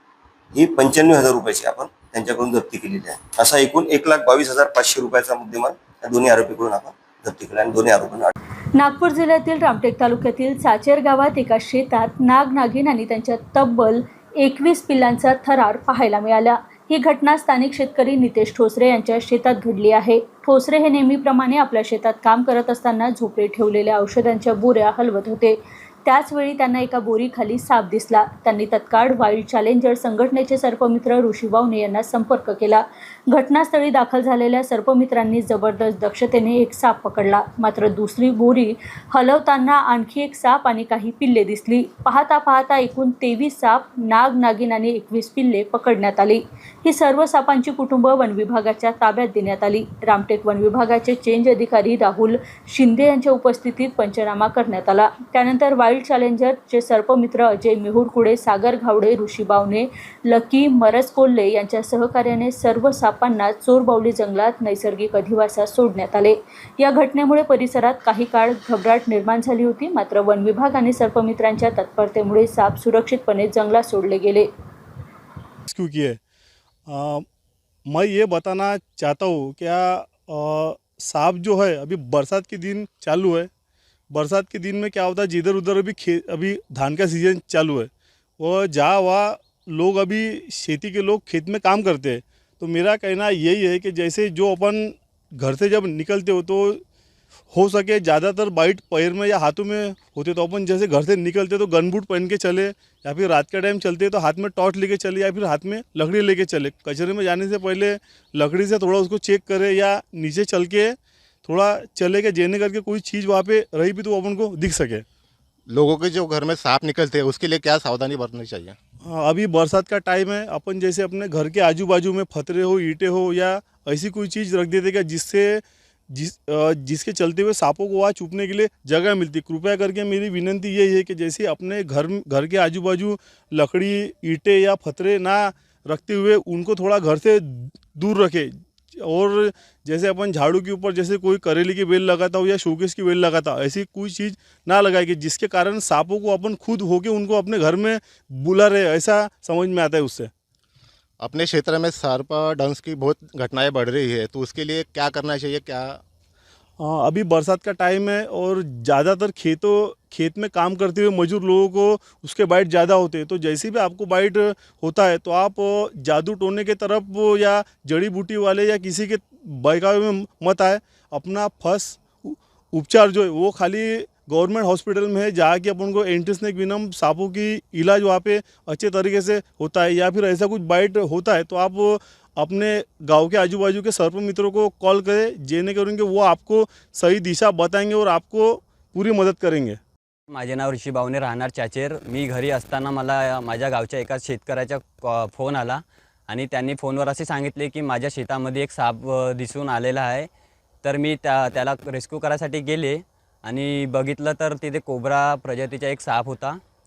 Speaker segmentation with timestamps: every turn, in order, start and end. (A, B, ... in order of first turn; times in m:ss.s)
0:00.5-0:08.3 A
0:08.8-1:14.5 B
1:15.7-1:16.2 C
1:16.9-1:17.2 C
1:17.8-1:23.5 C
1:24.1-1:36.8 C
1:37.5-1:55.0 C
1:55.7-1:58.8 D
1:59.0-2:30.3 C
2:31.2-2:36.0 D
2:36.8-3:09.8 C
3:10.3-3:20.3 E
3:20.8-3:26.6 E